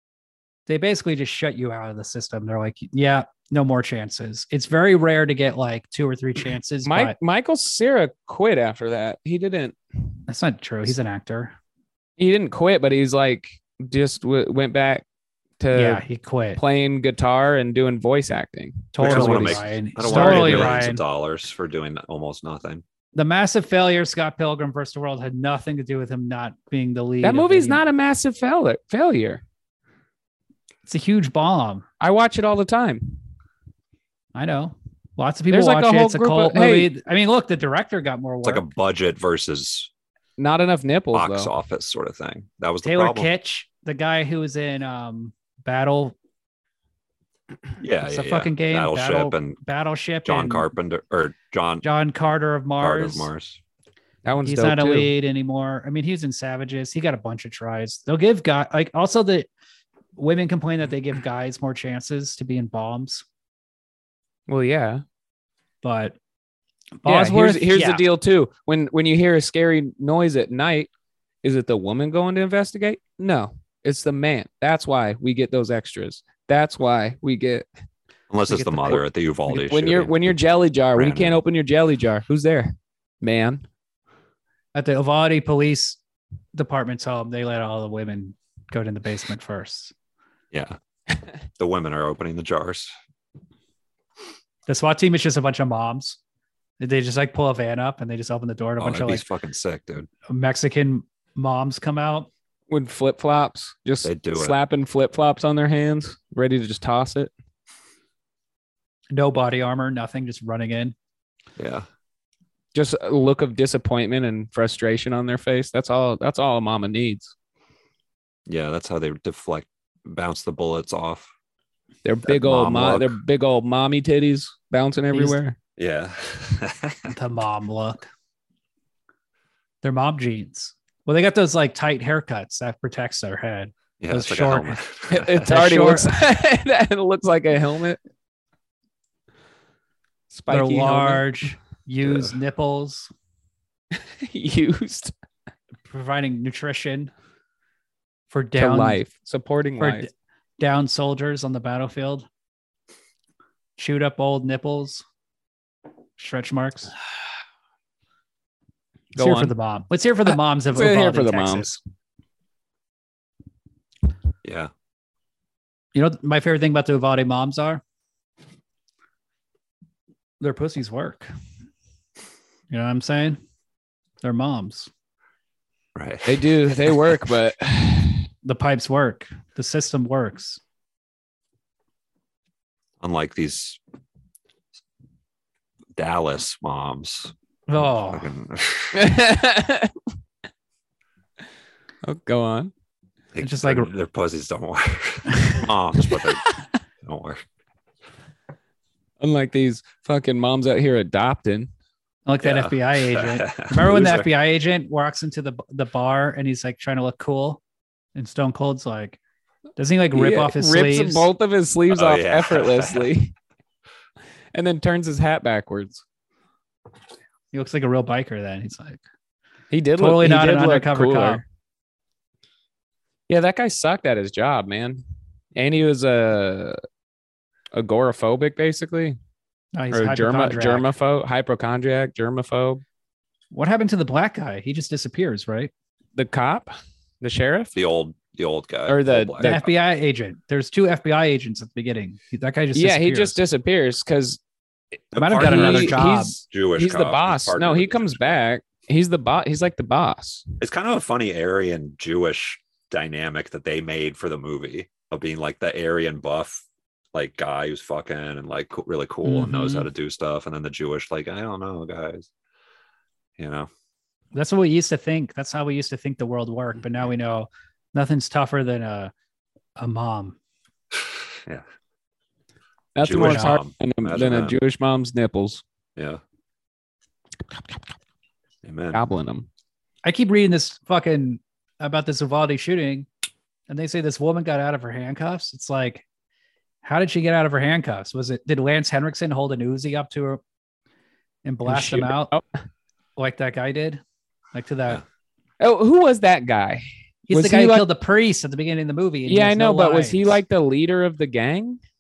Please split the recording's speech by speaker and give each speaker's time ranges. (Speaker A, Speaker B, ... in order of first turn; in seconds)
Speaker A: 0.7-7.2, 10.3-11.6, 15.7-16.6, 18.9-21.0, 23.1-27.8, 30.9-31.9, 34.4-38.6, 42.9-46.2, 48.0-50.7, 51.8-53.3, 54.5-59.5, 60.2-63.2, 65.8-66.2, 67.0-68.0, 78.5-79.0, 84.7-86.0, 86.5-89.9, 94.7-96.2, 96.8-99.2, 100.3-102.3, 109.1-111.0, 125.1-125.4, 127.1-128.1, 129.8-134.8, 135.4-136.1, 140.5-143.1, 145.9-147.1, 148.3-149.0, 149.8-150.1, 150.6-152.3, 153.8-155.0, 156.2-156.9, 159.2-161.8, 165.9-167.8, 170.4-171.3, 172.7-173.4, 174.2-174.9, 178.4-180.6, 187.7-188.3, 193.4-193.9, 202.3-207.6, 208.2-209.2, 209.8-211.3, 217.5-219.0, 220.0-221.4, 229.8-230.9, 233.5-235.7, 239.4-243.4, 245.2-246.4, 259.2-259.9, 264.3-269.1, 269.8-270.4, 273.1-273.6, 280.0-283.1, 283.7-286.0, 286.8-290.4, 291.4-292.4, 293.2-294.0, 294.5-295.0, 297.3-300.4
Speaker B: 6.9-9.8, 12.2-15.1, 15.6-16.0, 16.6-20.8, 27.2-29.4, 32.0-33.2, 35.5-36.9, 40.4-41.5, 54.2-55.1, 64.5-65.0, 67.1-70.9, 71.4-77.7, 79.5-83.7, 102.7-107.3, 112.7-117.3, 122.0-125.6, 135.1-138.0, 140.3-141.2, 143.9-145.1, 148.6-150.1, 159.2-159.5, 160.3-161.7, 176.3-178.3, 188.9-189.9, 192.1-192.7, 199.2-201.7, 210.1-213.3, 214.5-216.0, 219.7-221.4, 223.3-225.0, 225.6-226.8, 227.7-229.2, 229.9-232.8, 236.2-237.7, 238.9-239.6, 242.7-244.4, 245.4-250.4, 273.0-275.6, 278.9-279.5, 291.7-292.4, 295.6-297.9, 299.3-301.8
Speaker C: 19.0-22.8, 38.4-39.9, 41.1-43.3, 47.8-49.6, 50.2-51.9, 52.8-53.6, 78.3-80.4, 80.9-81.4, 90.5-90.8, 91.6-92.9, 98.8-100.1, 104.0-104.6, 111.6-111.9, 118.5-121.3, 122.3-123.2, 125.8-127.1, 134.0-135.5, 142.0-142.3, 164.4-164.7, 175.9-177.1, 183.0-183.8, 186.0-189.1, 193.3-196.5, 197.0-197.4, 202.4-204.3, 211.9-213.1, 237.8-239.7, 245.1-246.0, 246.5-248.4, 250.6-262.3, 263.4-263.7, 273.0-274.6, 276.0-276.2, 278.6-279.0